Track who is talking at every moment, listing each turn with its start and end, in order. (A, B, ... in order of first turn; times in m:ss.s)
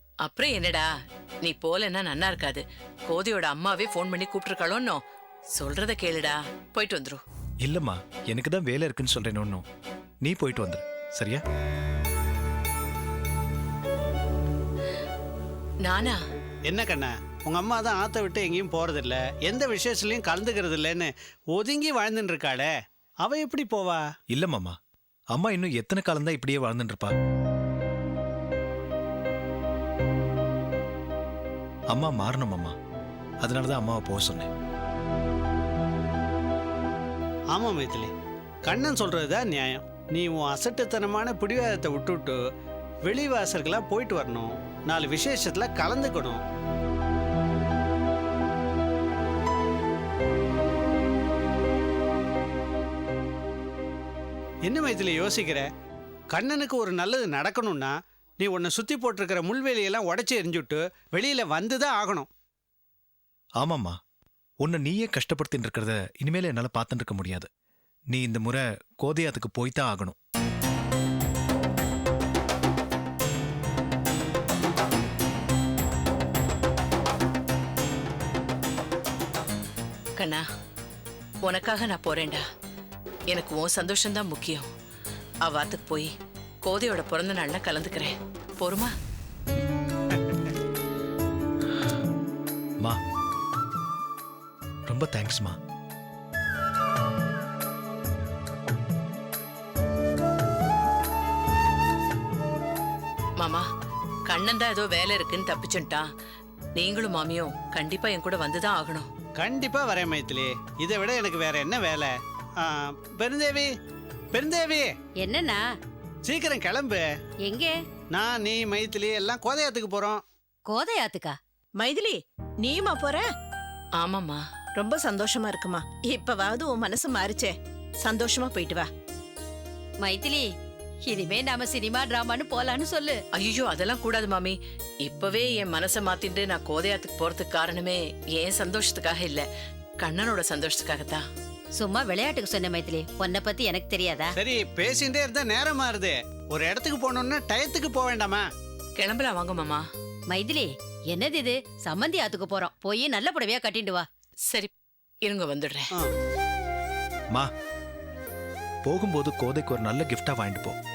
0:00.2-0:00.8 A
0:01.4-0:05.0 A
0:05.6-0:07.2 A
0:07.6-0:09.6 B
0:10.2-0:11.4 B
0:15.8-0:16.2 A
0:16.6-0:22.7 C
0:23.2-0:24.0 C
0:24.3-0:24.7 B
0:25.3-0:27.1 B
0:31.9-0:32.7 B
0:33.4-0:34.5 B
0:37.5-0:38.1 C
0:38.6-0:42.4 C
0:43.0-0:46.4 C
0:54.6-0:55.6 C
0:56.3-1:02.3 C
1:03.6-1:03.9 B
1:04.6-1:07.5 B
1:08.1-1:10.1 B
1:20.2-1:20.4 A
1:21.4-1:22.4 A
1:23.3-1:24.7 A
1:25.4-1:26.1 A
1:26.6-1:28.9 A
1:34.9-1:35.6 B
1:43.4-1:43.6 A
1:44.3-1:46.0 A
1:46.8-1:49.1 A
1:49.4-1:53.7 C
1:54.3-1:54.9 C
1:55.2-1:55.6 D
1:56.2-1:57.0 C
1:57.4-1:57.7 D
1:58.1-2:00.2 C
2:00.6-2:01.4 D
2:01.8-2:03.2 E
2:04.0-2:04.4 A
2:04.8-2:08.8 E
2:10.0-2:10.5 D
2:11.0-2:13.2 D
2:13.4-2:19.4 A
2:20.0-2:21.2 A
2:21.7-2:24.3 D
2:24.4-2:28.4 C
2:29.0-2:29.8 A
2:30.3-2:34.0 D
2:35.2-2:35.9 A
2:38.8-2:40.8 B